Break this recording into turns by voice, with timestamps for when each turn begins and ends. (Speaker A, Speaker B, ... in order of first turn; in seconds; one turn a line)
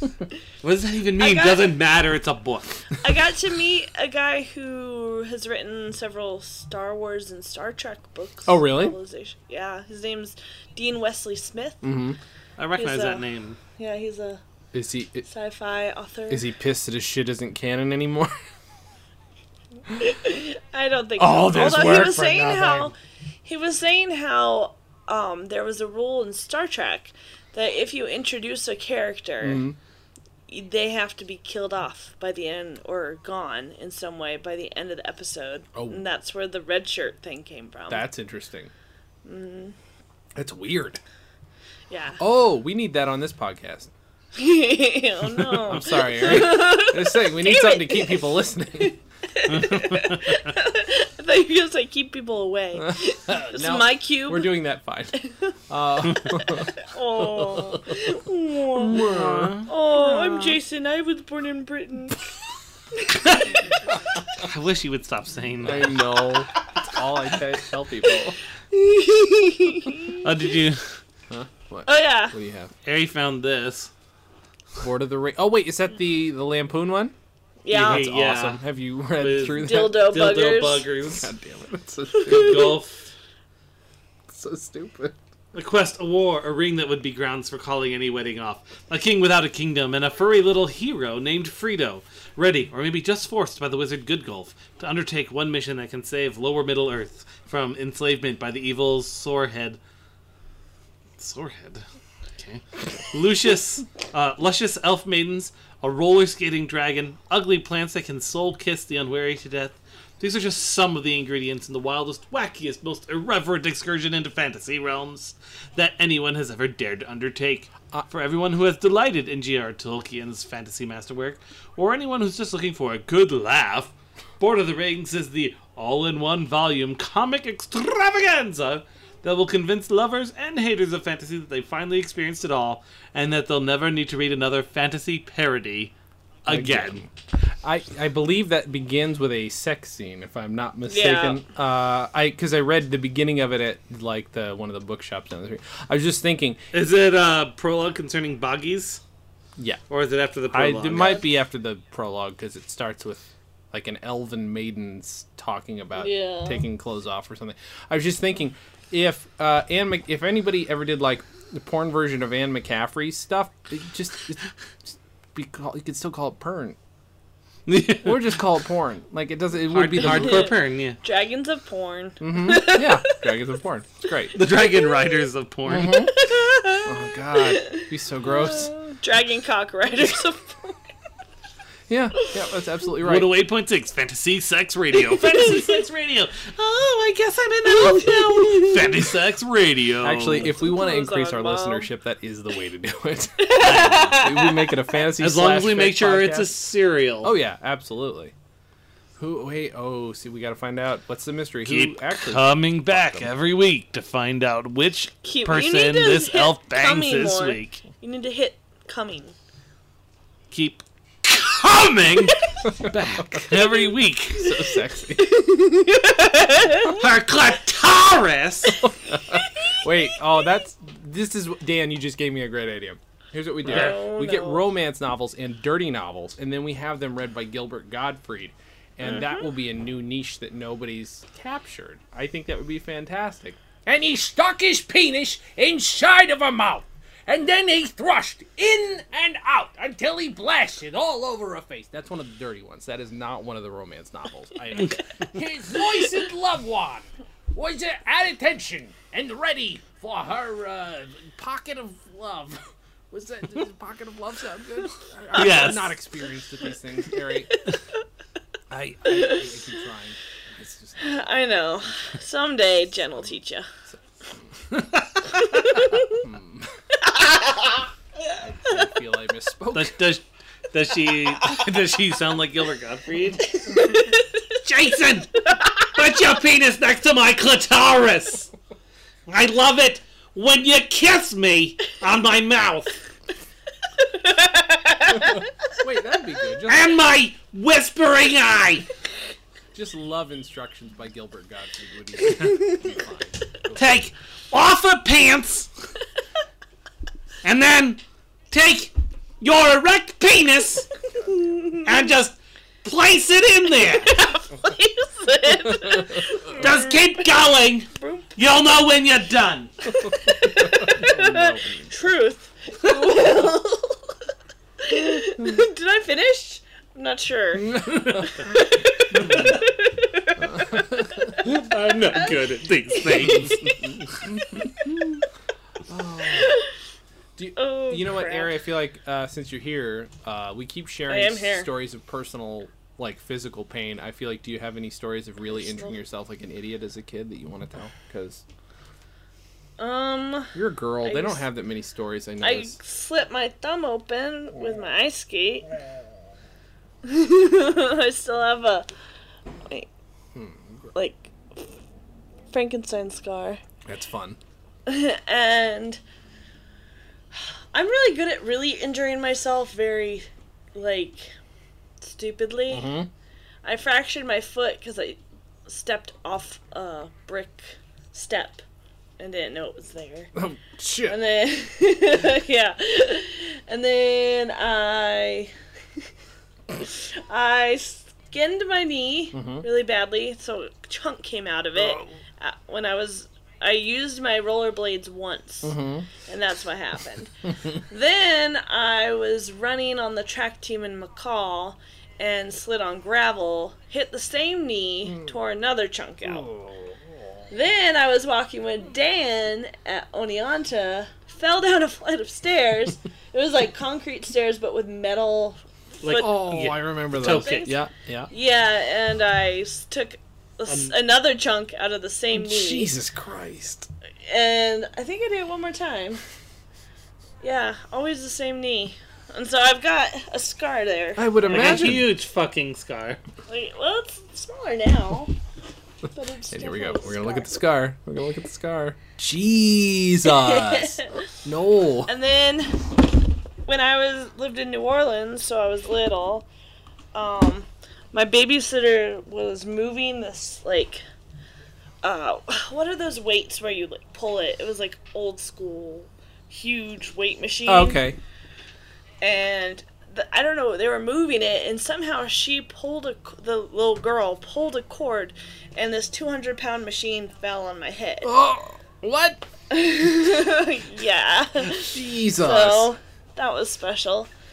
Speaker A: 0.6-2.8
Speaker B: 1.2-1.7
Speaker B: 3.0-11.9
Speaker C: 8.5-8.9
Speaker C: 11.8-12.2
Speaker A: 12.6-13.6
Speaker B: 12.8-14.4
Speaker C: 14.7-15.3
Speaker B: 15.3-16.4
Speaker C: 16.3-18.3
Speaker B: 20.0-22.9
Speaker C: 21.2-22.9
Speaker B: 23.4-29.7
Speaker C: 29.4-29.8
Speaker B: 30.5-38.1
Speaker C: 35.8-36.0
Speaker C: 37.9-38.7
Speaker B: 39.2-39.8
Speaker C: 40.4-41.0
Speaker B: 41.9-42.2
Speaker C: 42.2-43.9
Speaker B: 44.4-54.6
Speaker C: 45.4-49.0
Speaker A: 49.6-50.4
Speaker C: 52.8-55.1
Speaker B: 55.2-55.5
Speaker C: 55.7-57.9
Speaker B: 56.8-59.0
Speaker C: 58.9-59.6
Speaker A: 58.9-60.6
Speaker B: 59.7-62.2
Speaker B: 63.0-63.4
Speaker A: 63.2-63.5
Speaker A: 64.3-66.0
Speaker C: 65.6-68.4
Speaker B: 68.7-70.2
Speaker A: 70.2-70.9
Speaker C: 71.3-72.7
Speaker B: 71.8-72.3
Speaker A: 72.8-73.9
Speaker C: 74.8-77.1
Speaker B: 77.6-78.1
Speaker A: 77.7-78.6
Speaker C: 77.7-80.1
Speaker A: 79.2-81.3
Speaker B: 79.5-80.9
Speaker C: 81.0-82.8
Speaker B: 82.1-82.8
Speaker A: 82.3-83.1
Speaker C: 84.3-85.2
Speaker A: 85.5-99.8
Speaker A: 101.2-101.8
Speaker A: 102.4-135.9
Speaker A: 136.4-137.0
Speaker C: 136.5-137.1
Speaker C: 137.6-146.6
Speaker B: 140.9-141.4
Speaker A: 146.7-149.0
Speaker C: 149.6-149.8
Speaker A: 149.9-151.3
Speaker C: 150.5-166.8
Speaker B: 156.0-156.6
Speaker A: 167.7-168.3
Speaker C: 168.0-170.5
Speaker A: 169.7-171.0
Speaker B: 170.0-173.2
Speaker C: 172.2-174.4
Speaker A: 174.3-176.1
Speaker C: 175.7-176.1
Speaker B: 176.1-180.8
Speaker C: 176.8-178.7
Speaker C: 181.9-183.4
Speaker A: 183.0-190.6
Speaker B: 185.3-185.7
Speaker B: 187.8-188.9
Speaker C: 190.0-196.5
Speaker B: 190.4-191.9
Speaker B: 193.4-194.8
Speaker A: 193.6-194.2
Speaker A: 195.2-197.3
Speaker C: 197.2-198.3
Speaker C: 199.2-203.3
Speaker A: 201.7-207.8
Speaker B: 205.2-209.3
Speaker A: 210.5-214.5
Speaker C: 212.7-213.5
Speaker C: 214.4-215.3
Speaker B: 215.2-217.0
Speaker A: 216.8-218.8
Speaker C: 218.8-252.6
Speaker B: 223.6-224.6
Speaker A: 223.7-224.0
Speaker C: 253.1-257.6
Speaker A: 255.3-256.0
Speaker C: 258.7-261.2
Speaker B: 259.1-259.6
Speaker B: 261.0-263.7
Speaker A: 264.7-265.3
Speaker B: 265.4-266.2
Speaker C: 266.1-266.7
Speaker B: 267.1-267.8
Speaker C: 268.4-270.1
Speaker A: 269.7-273.9
Speaker B: 273.8-274.1
Speaker A: 274.5-278.5
Speaker A: 279.3-283.0
Speaker B: 284.0-285.4
Speaker C: 285.1-287.0
Speaker A: 286.7-288.9
Speaker C: 289.7-294.0
Speaker A: 293.8-295.7
Speaker A: 297.4-300.9
Speaker B: 301.2-301.9
Speaker A: 301.8-304.1
Speaker B: 304.0-307.2
Speaker A: 306.5-309.7
Speaker B: 307.9-308.3
Speaker B: 310.0-314.2
Speaker C: 310.1-311.9
Speaker B: 314.8-321.5
Speaker C: 317.6-318.5
Speaker C: 320.4-321.4
Speaker A: 321.4-323.8
Speaker B: 322.9-325.0
Speaker C: 323.8-325.2
Speaker C: 325.9-326.6
Speaker B: 326.2-326.7
Speaker C: 327.4-338.4
Speaker B: 327.6-328.5
Speaker B: 331.1-331.7
Speaker B: 335.6-335.9
Speaker B: 339.8-341.5
Speaker C: 340.6-342.8
Speaker B: 342.4-345.7
Speaker B: 347.0-348.9
Speaker C: 350.4-350.9
Speaker B: 350.9-351.7
Speaker B: 352.5-353.6
Speaker C: 353.9-354.4
Speaker B: 354.9-356.0
Speaker B: 357.4-361.3
Speaker B: 362.0-363.0
Speaker C: 362.7-363.1
Speaker B: 363.6-368.6
Speaker B: 369.2-370.3
Speaker C: 370.4-371.2
Speaker B: 371.1-375.5
Speaker B: 376.8-396.5
Speaker C: 379.3-379.6
Speaker C: 385.6-386.1
Speaker C: 396.4-396.9
Speaker B: 397.5-406.3
Speaker A: 406.0-407.7
Speaker C: 406.1-408.3
Speaker B: 407.2-412.9
Speaker A: 410.7-410.9
Speaker C: 412.3-413.9
Speaker B: 414.2-416.2
Speaker B: 417.4-421.9
Speaker C: 421.2-422.1
Speaker A: 421.5-423.2
Speaker B: 423.5-425.3
Speaker B: 426.1-427.5
Speaker C: 426.5-432.1
Speaker B: 430.3-431.1
Speaker B: 432.1-432.9
Speaker B: 433.7-436.5
Speaker B: 437.1-441.0
Speaker B: 442.0-448.1
Speaker C: 447.7-448.2
Speaker B: 449.2-458.3
Speaker C: 458.2-459.4
Speaker B: 459.7-464.3
Speaker C: 461.6-462.9